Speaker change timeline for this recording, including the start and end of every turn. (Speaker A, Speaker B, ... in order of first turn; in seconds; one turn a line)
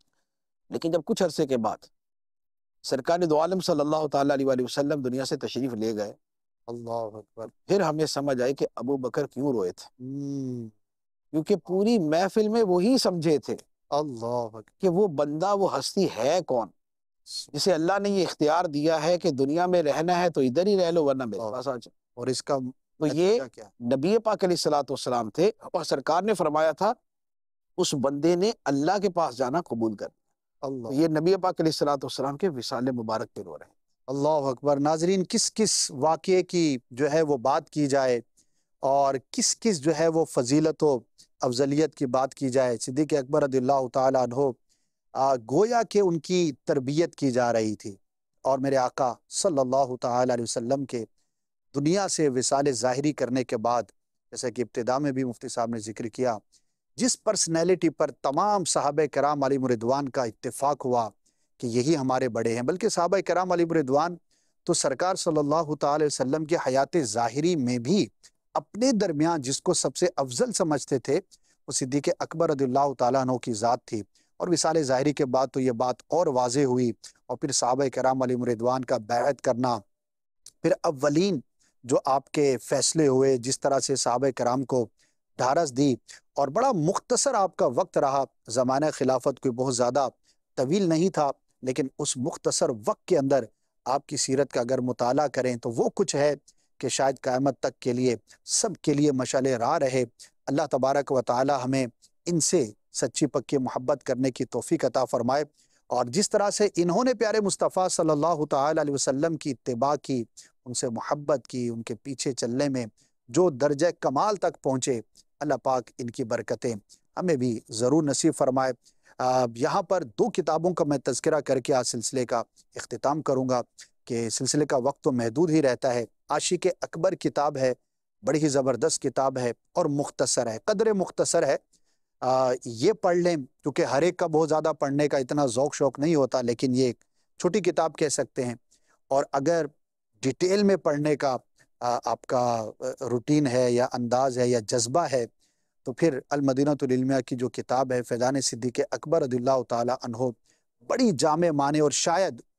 Speaker A: 0.7-1.9
Speaker A: 2.9-6.2
Speaker B: 6.7-7.5
Speaker A: 7.5-9.9
Speaker B: 10.0-10.7
Speaker A: 11.3-13.6
Speaker B: 13.9-14.7
Speaker A: 14.8-16.7
Speaker B: 17.3-17.5
Speaker A: 17.5-21.9
Speaker B: 22.2-23.7
Speaker A: 23.0-26.9
Speaker A: 27.8-30.2
Speaker B: 30.6-31.0
Speaker A: 30.9-33.7
Speaker B: 34.1-38.2
Speaker B: 38.8-44.6
Speaker B: 45.2-51.1
Speaker B: 51.7-56.4
Speaker B: 57.0-79.8
Speaker B: 80.6-131.6
Speaker B: 132.2-138.6
Speaker B: 139.1-145.3
Speaker B: 145.8-152.4